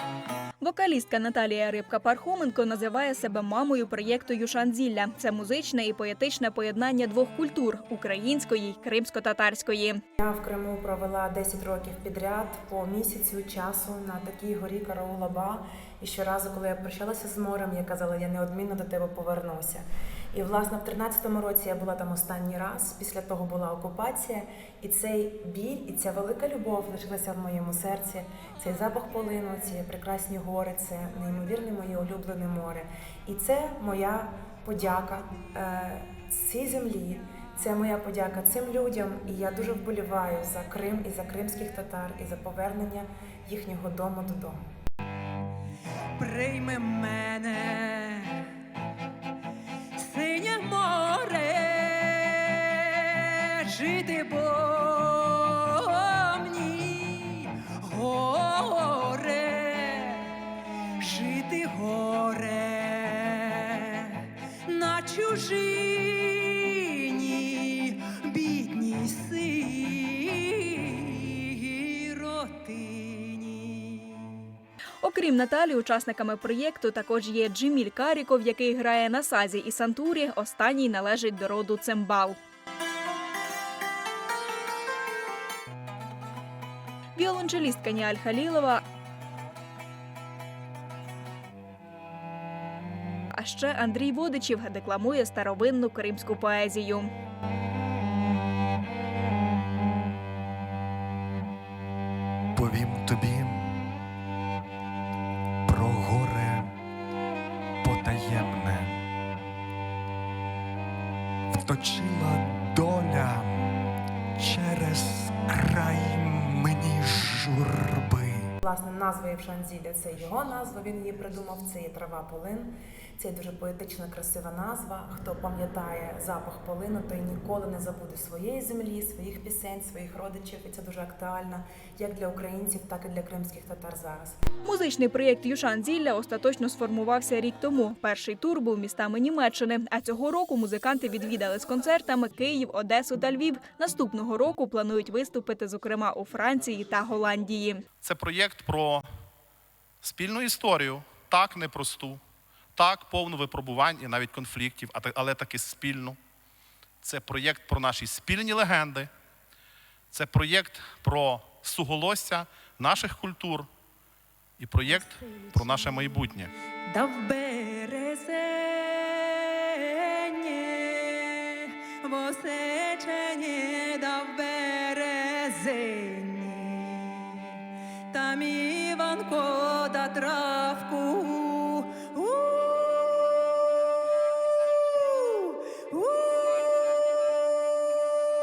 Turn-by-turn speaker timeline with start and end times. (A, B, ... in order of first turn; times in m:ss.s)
0:00.6-0:10.0 A
0:10.2-0:44.6 B
0:46.2-0:48.5 C
0:49.9-1:00.4 C
1:01.0-1:14.4 C
1:15.0-1:22.4 A
1:27.2-1:28.8 A
1:33.3-1:37.1 A
1:42.5-1:43.8 D
1:45.6-1:46.7 D
1:47.8-1:49.0 D
1:51.5-1:53.7 D
1:54.4-1:58.5 D
1:58.6-2:14.4 B
2:14.6-2:27.8 A
2:28.0-2:29.1 E
2:30.0-2:32.2 E
2:32.7-2:36.2 E
2:37.0-2:39.1 E
2:40.1-2:43.7 E
2:44.6-2:46.5 E
2:46.8-2:57.5 C
2:58.1-3:03.4 C
3:04.9-3:07.0 C